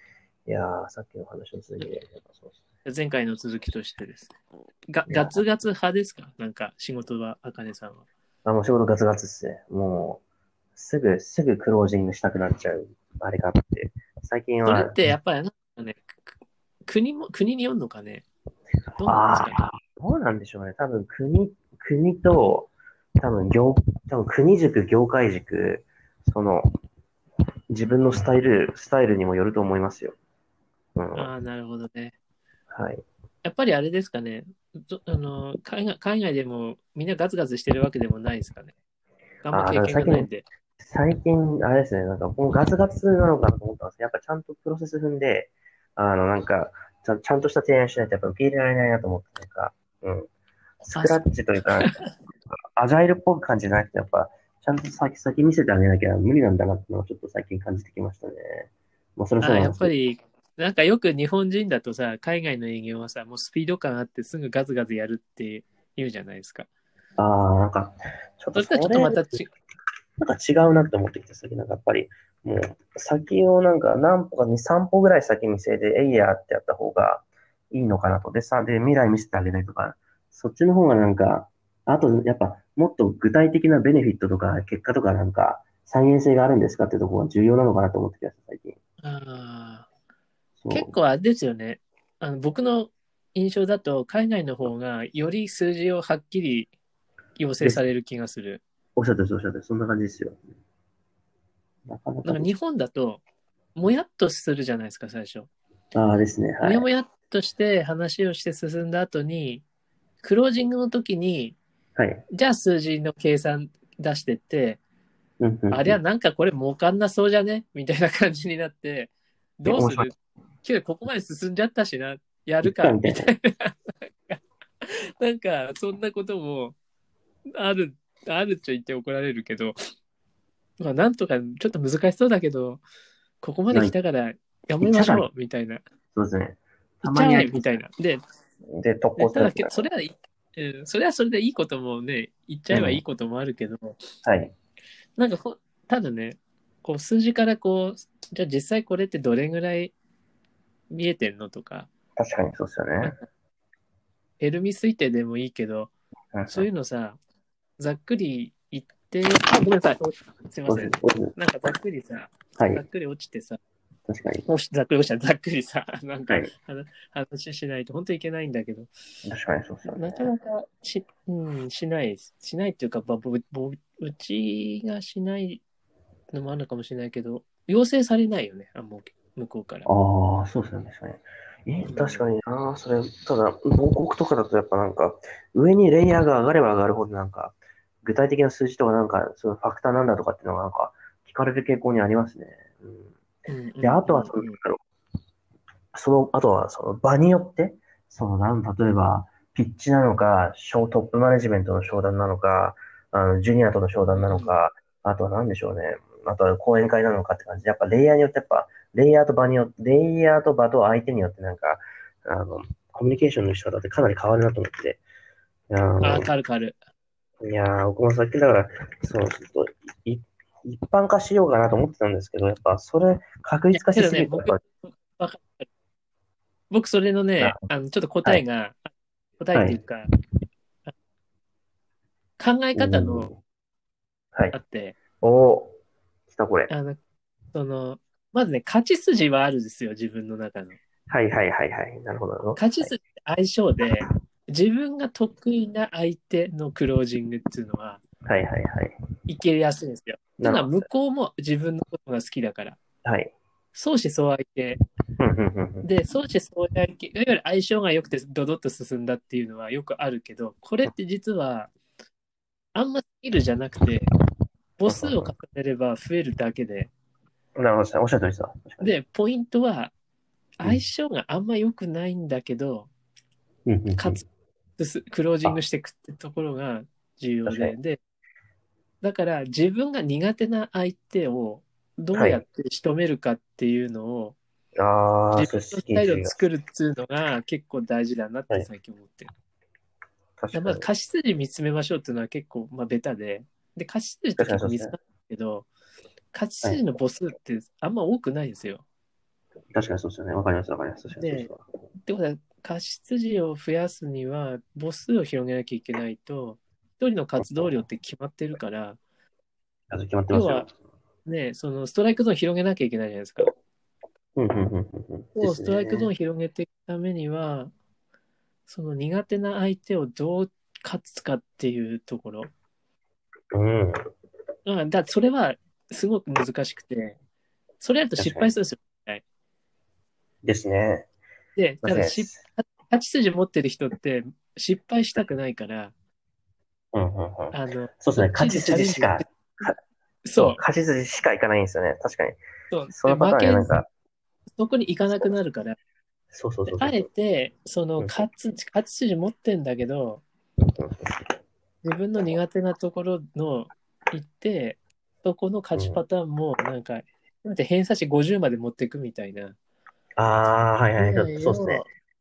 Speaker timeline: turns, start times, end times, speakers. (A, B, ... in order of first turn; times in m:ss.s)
0:00.4-0:02.6 A
0:02.8-0:04.3 B
0:04.9-0:08.0 B
0:05.1-0:05.4 A
0:08.4-0:10.2 A
0:10.8-0:15.1 A
0:14.6-0:16.3 B
0:16.8-0:18.2 B
0:19.0-0:19.6 B
0:19.0-0:26.7 A
0:27.7-0:30.2 A
0:31.0-0:31.3 A
0:31.2-0:32.2 B
0:32.7-0:33.0 A
0:33.4-0:38.7 B
0:39.4-0:40.5 B
0:39.5-0:40.3 A
0:40.8-0:50.3 A
0:50.8-0:59.9 A
0:50.9-0:51.2 B
0:51.8-0:52.1 B
0:59.4-1:06.7 B
1:07.2-1:09.2 A
1:08.5-1:09.5 B
1:10.2-1:28.8 A
1:29.0-1:29.9 B
1:30.6-1:31.0 A
1:30.7-1:36.7 B
1:37.4-1:38.6 B
1:39.0-1:40.4 A
1:41.9-1:42.5 A
1:42.2-1:43.2 B
1:43.8-1:45.5 B
1:45.9-1:46.9 A
1:46.6-1:49.6 B
1:50.2-1:51.6 B
1:52.0-1:52.2 A
1:52.3-1:54.8 B
1:55.4-1:56.0 A
1:55.7-2:04.4 B
1:59.6-2:00.1 A
2:02.6-2:03.3 A
2:05.2-2:06.8 B
2:07.6-2:09.8 B
2:10.8-2:12.8 B
2:13.4-2:15.8 B
2:13.7-2:14.0 A
2:14.8-2:15.2 A
2:16.1-2:17.8 A
2:17.0-2:18.2 B
2:18.7-2:19.9 A
2:19.2-2:24.0 B
2:22.7-2:23.0 A
2:24.2-2:24.5 A
2:25.2-2:29.9 B
2:30.9-2:31.9 B
2:32.2-2:33.1 A
2:34.4-2:35.9 B
2:36.3-2:36.7 A
2:36.5-2:37.2 B
2:37.8-2:43.6 B
2:40.7-2:41.3 A
2:42.6-2:42.8 A
2:44.1-2:44.4 A
2:44.4-2:48.9 B
2:49.2-2:50.3 A
2:49.9-2:55.6 B
2:56.3-2:59.9 B
2:59.8-3:13.2 A
3:01.9-3:02.3 B
3:13.5-3:14.6 B
3:13.8-3:14.8 A
3:15.9-3:35.0 A
3:24.2-3:24.5 B
3:35.7-3:36.3 A
3:36.0-3:36.8 B
3:37.4-3:44.6 A
3:43.7-3:45.7 B
3:46.7-3:50.0 B
3:47.4-3:47.6 A
3:52.4-3:53.3 B
3:52.8-3:53.4 A
3:54.5-3:55.0 B
3:55.2-3:55.8 A
3:56.3-3:56.7 A
3:56.7-3:57.0 B
3:57.5-4:00.8 B
4:01.1-4:02.9 A
4:02.6-4:08.0 B
4:08.2-4:08.9 A
4:09.3-4:12.8 B
4:10.4-4:10.8 A
4:13.0-4:13.3 A
4:13.7-4:14.8 B
4:15.2-4:15.9 A
4:15.8-4:21.7 B
4:22.7-4:24.1 B
4:24.8-4:26.9 B
4:24.9-4:25.3 A
4:27.6-4:29.0 A
4:28.8-4:29.9 B
4:30.6-4:32.9 B
4:33.6-4:34.2 A
4:34.0-4:34.2 B
4:34.8-4:38.0 B
4:37.4-4:37.7 A
4:39.0-4:44.4 B
4:42.1-4:42.4 A
4:44.8-4:46.4 A
4:45.4-4:49.3 B
4:50.4-4:50.8 A
4:50.5-4:55.7 B
4:54.4-4:54.9 A
4:56.3-4:58.8 B
4:59.7-5:01.6 A
5:01.2-5:01.5 B
5:02.0-5:09.0 B
5:07.4-5:07.8 A
5:09.9-5:10.7 A
5:10.3-5:10.7 B
5:11.2-5:13.5 B
5:14.4-5:16.1 A
5:15.4-5:17.7 B
5:18.7-5:22.5 B
5:23.5-5:24.0 A
5:24.6-5:27.2 B
5:27.8-5:29.2 B
5:28.2-5:28.5 A
5:30.4-5:31.1 A
5:31.6-5:35.9 B
5:31.8-5:32.4 A
5:36.9-5:39.8 A
5:37.5-5:39.3 B
5:40.2-5:40.6 B
5:40.4-5:42.4 A
5:42.7-5:43.7 B
5:42.9-5:43.9 A
5:44.6-5:45.8 B
5:46.3-5:47.0 A
5:46.7-5:50.2 B
5:48.0-5:48.2 A
5:50.7-5:51.1 A
5:51.8-5:59.6 B
5:55.8-5:56.0 A
6:00.2-6:01.8 A
6:01.0-6:01.9 B